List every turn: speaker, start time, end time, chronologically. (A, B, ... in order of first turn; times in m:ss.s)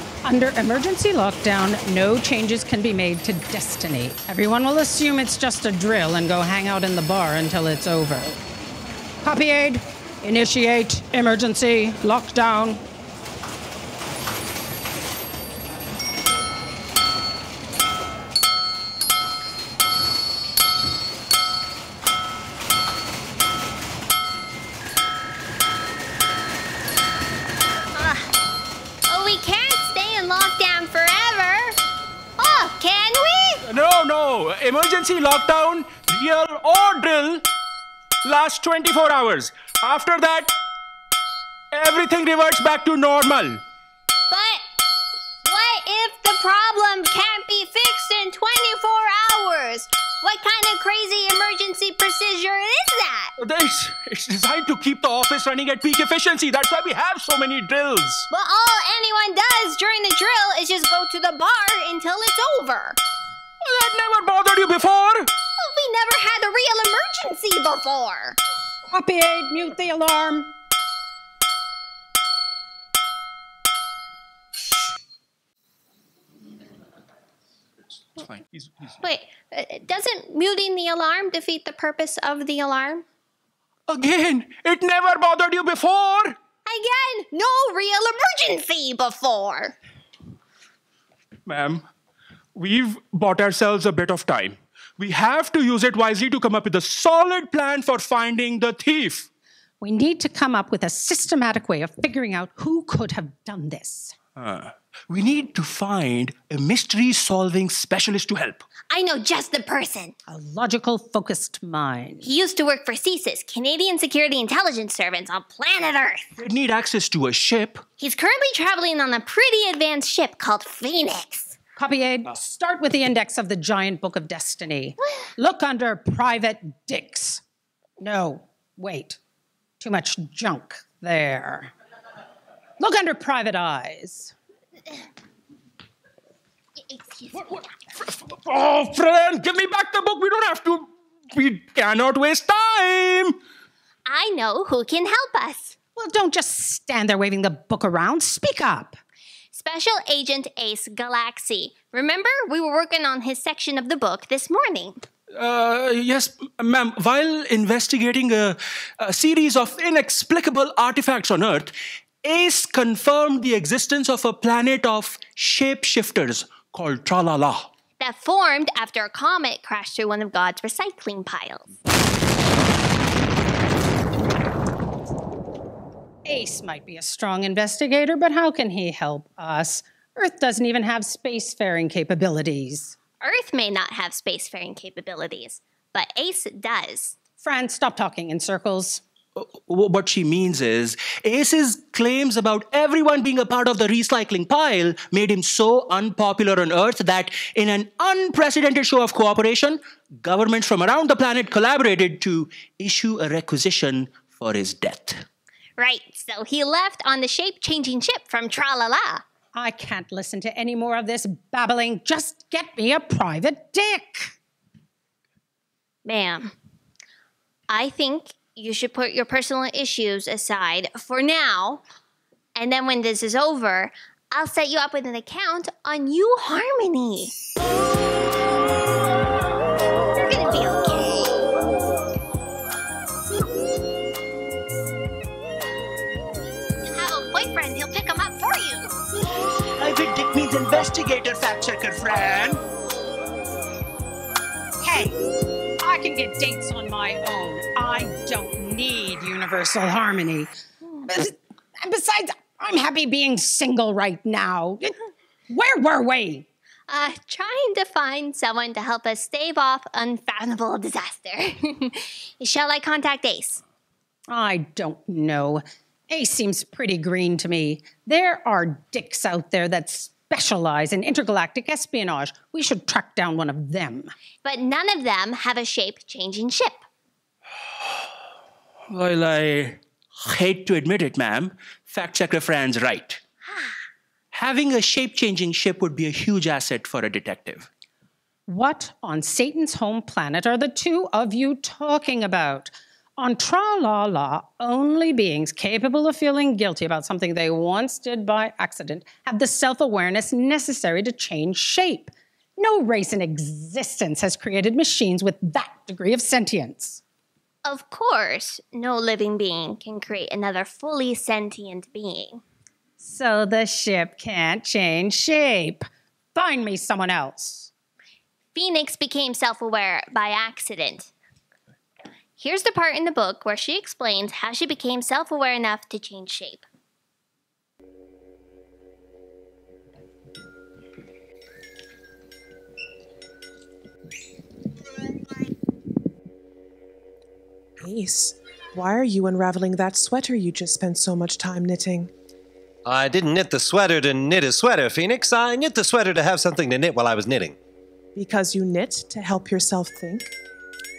0:00.2-0:08.3 A
0:09.2-0:12.8 A
0:27.9-0:28.3 B
0:29.0-0:31.8 B
0:32.4-0:33.6 B
0:33.6-0:37.4 C
0:38.2-0:40.5 C
0:41.7-0:43.6 C
0:44.3-0:44.6 B
0:45.4-0:53.3 B
0:53.4-0:58.3 C
0:58.3-1:03.0 B
1:03.6-1:05.3 C
1:05.6-1:08.4 B
1:08.9-1:10.5 A
1:18.2-1:18.9 C
1:19.0-1:23.0 B
1:23.9-1:26.4 C
1:26.6-1:29.8 B
1:31.4-1:31.8 C
1:32.5-1:39.3 C
1:39.8-1:44.1 A
1:44.4-1:48.6 C
1:48.9-1:50.1 B
1:50.3-1:52.2 A
1:52.2-1:56.3 B
1:56.4-1:57.8 C
1:58.0-2:01.6 B
2:01.8-2:07.4 A
2:08.0-2:09.2 A
2:09.8-2:11.7 A
2:12.8-2:14.3 A
2:16.8-2:17.6 B
2:18.0-2:23.4 C
2:24.1-2:25.7 B
2:26.0-2:29.0 A
2:29.5-2:35.0 B
2:35.3-2:47.7 C
2:48.0-2:51.7 B
2:56.2-3:02.9 A
3:03.2-3:07.2 B
3:07.4-3:09.0 A
3:09.4-3:25.2 C
3:25.8-3:29.2 B
3:29.5-3:34.3 A
3:36.0-3:36.5 B
3:37.7-3:41.8 B
3:42.5-3:47.3 B
3:50.1-3:51.5 B
3:56.8-3:58.9 B
3:59.8-4:02.6 C
4:04.8-4:05.2 A
4:05.8-4:10.5 A
4:11.0-4:14.9 A
4:15.5-4:16.4 A
4:16.9-4:23.6 B
4:24.3-4:34.1 A
4:34.4-4:36.8 B
4:38.9-4:43.2 C
4:44.3-4:47.7 C
4:48.5-5:07.0 A
5:07.6-5:12.4 B
5:13.0-5:17.7 A
5:18.5-5:21.1 B
5:22.4-5:26.6 B
5:37.8-5:42.1 D
5:42.8-5:47.6 E
5:48.1-5:50.3 D